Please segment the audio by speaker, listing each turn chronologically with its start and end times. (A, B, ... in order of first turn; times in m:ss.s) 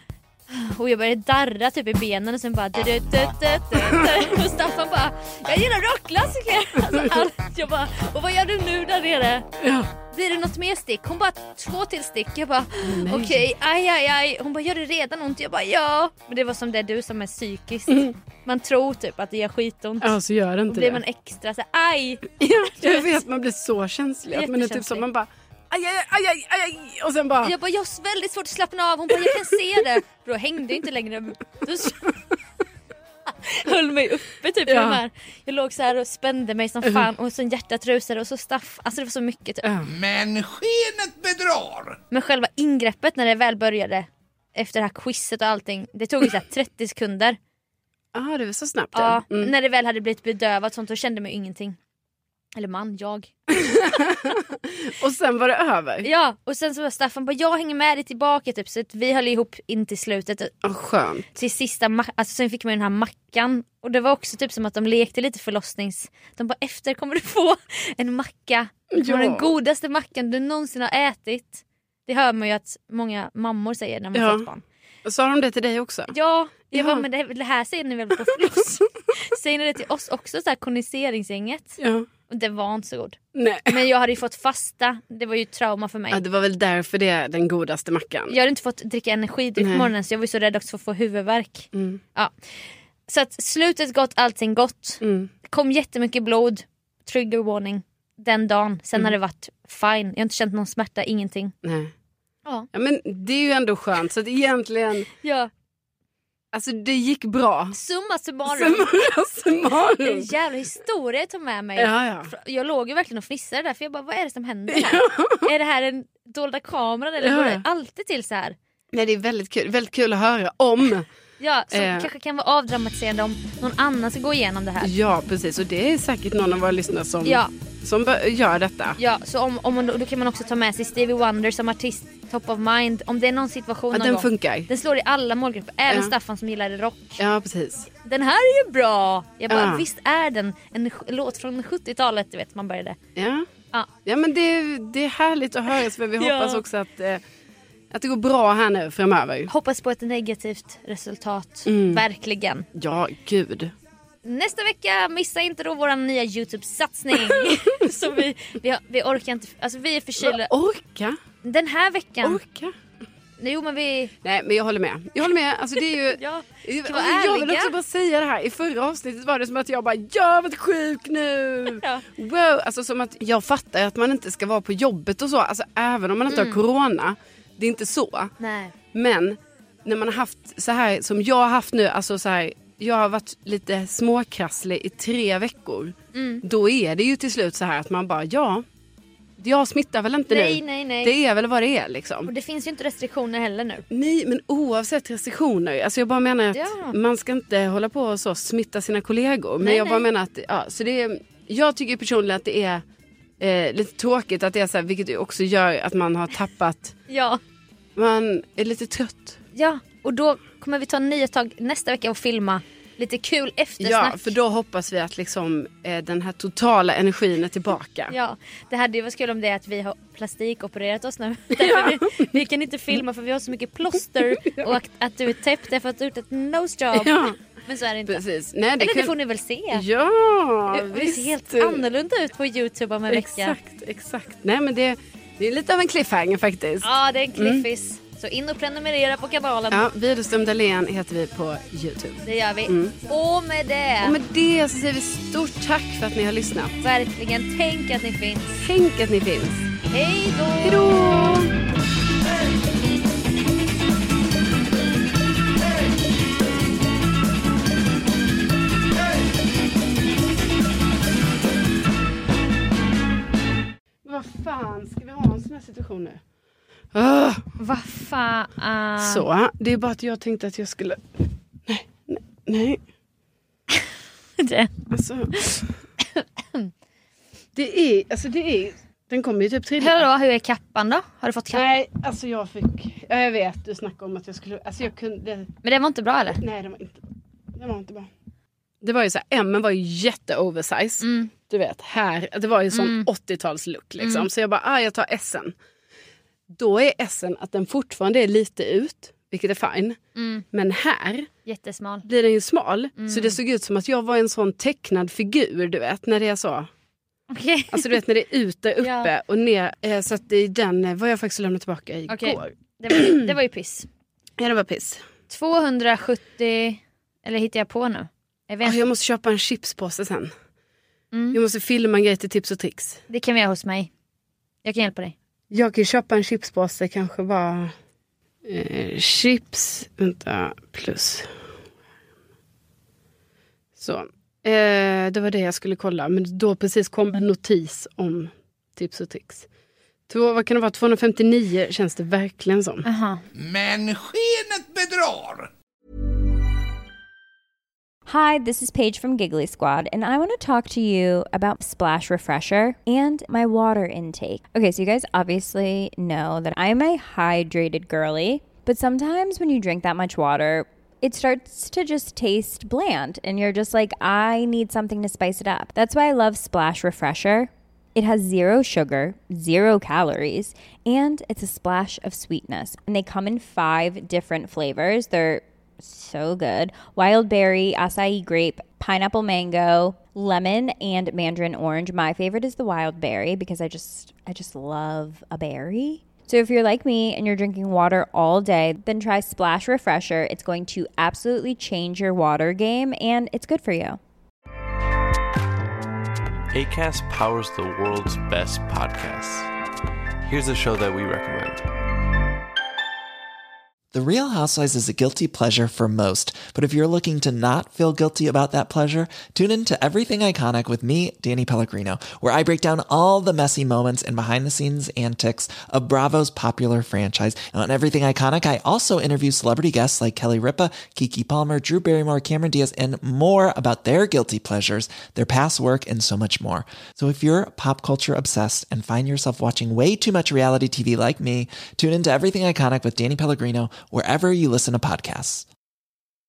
0:00.5-0:09.5 A
0:09.6-0:09.9 B
0:10.1-0:20.2 A
0:12.8-0:13.5 B
0:17.9-0:18.1 B
0:20.0-0:21.0 B
0:20.7-0:23.2 A
0:22.4-0:27.5 B
0:24.3-0:25.0 A
0:27.4-0:32.2 A
0:33.3-0:39.7 A
0:34.7-0:35.0 B
0:39.8-0:42.0 C
0:42.1-0:47.4 A
0:48.2-0:49.5 B
0:48.9-0:51.8 A
0:52.6-0:54.4 A
0:53.6-0:56.1 B
0:56.0-1:00.5 A
1:00.6-1:01.3 B
1:01.4-1:14.6 A
1:08.9-1:09.5 B
1:14.2-1:14.5 B
1:15.0-1:16.1 B
1:16.1-1:26.2 A
1:16.7-1:17.0 B
1:21.8-1:22.1 B
1:23.4-1:23.8 B
1:26.1-1:28.4 B
1:28.3-1:32.3 A
1:29.6-1:29.9 B
1:31.7-1:32.0 B
1:33.1-1:41.5 A
1:35.0-1:35.3 B
1:41.6-1:41.9 B
1:42.7-1:45.1 B
1:45.2-1:45.5 A
1:46.5-1:47.8 B
1:47.7-1:49.1 A
1:48.5-1:50.3 B
1:49.9-1:58.6 A
1:51.8-1:52.3 B
1:54.7-1:55.5 B
1:57.2-1:57.6 B
1:58.9-2:01.1 B
2:01.4-2:04.9 A
2:01.7-2:02.1 B
2:04.8-2:09.0 B
2:07.2-2:07.5 A
2:09.0-2:17.2 A
2:13.9-2:14.7 B
2:17.2-2:17.9 B
2:18.0-2:23.0 A
2:19.5-2:19.8 B
2:23.2-2:23.5 B
2:24.0-2:27.2 B
2:26.2-2:26.6 A
2:27.9-2:29.5 B
2:29.5-2:32.7 A
2:31.7-2:32.0 B
2:32.8-2:33.7 B
2:34.2-2:40.5 A
2:37.2-2:37.7 B
2:40.2-2:41.2 B
2:41.4-2:42.4 A
2:42.2-2:42.7 B
2:43.4-2:44.1 A
2:44.2-2:58.4 B
2:46.1-2:47.7 A
2:51.8-2:52.0 A
2:56.3-2:56.6 A
2:58.4-2:58.7 A
2:58.9-3:08.6 B
3:06.1-3:06.4 A
3:09.4-3:12.3 B
3:10.3-3:11.1 A
3:12.3-3:13.8 A
3:13.9-3:22.8 B
3:16.5-3:17.0 A
3:19.6-3:20.1 A
3:23.4-3:27.0 B
3:27.1-3:27.4 A
3:28.0-3:29.4 B
3:29.6-3:34.3 A
3:33.8-3:38.2 B
3:38.1-3:48.2 A
3:41.6-3:42.4 B
3:44.2-3:44.7 B
3:46.9-3:47.4 B
3:48.1-3:49.1 B
3:48.8-3:49.8 A
3:49.7-3:51.8 B
3:50.7-3:53.6 A
3:53.1-3:57.7 B
3:56.8-3:59.9 A
3:59.7-4:03.0 B
4:02.2-4:04.2 A
4:04.0-4:06.8 B
4:06.8-4:08.6 A
4:08.6-4:09.7 B
4:09.9-4:11.4 A
4:10.6-4:11.5 B
4:24.0-4:26.2 B
4:26.9-4:27.4 B
4:27.6-4:29.2 A
4:29.0-4:31.0 B
4:31.7-4:32.8 B
4:34.4-4:34.7 A
4:34.9-4:35.6 B
4:35.3-4:36.7 A
4:37.6-4:40.0 B
4:39.8-4:41.6 A
4:41.5-4:45.5 B
4:45.6-4:46.4 A
4:46.4-4:47.0 B
4:47.6-4:48.1 B
4:48.8-4:55.5 B
4:51.0-4:51.3 A
4:52.7-4:53.1 A
4:54.0-4:54.3 A
4:56.5-5:00.0 B
5:00.2-5:00.4 A
5:00.5-5:01.3 B
5:01.5-5:02.1 A
5:02.1-5:06.7 B
5:03.0-5:03.4 A
5:07.3-5:08.0 A
5:07.7-5:13.3 B
5:08.8-5:09.1 A
5:12.1-5:13.9 A
5:14.4-5:15.0 B
5:15.3-5:18.8 A
5:18.6-5:20.3 B
5:21.1-5:21.4 A
5:21.3-5:23.0 B
5:23.1-5:23.9 A
5:24.6-5:25.2 A
5:25.5-5:27.7 B
5:28.5-5:31.3 B
5:33.8-5:39.5 B
5:40.1-5:42.9 B
5:42.8-5:43.2 A
5:43.4-5:45.5 C
5:48.1-6:34.0 D
6:36.5-6:39.5 E
6:40.2-6:41.6 E
6:43.9-7:15.5 F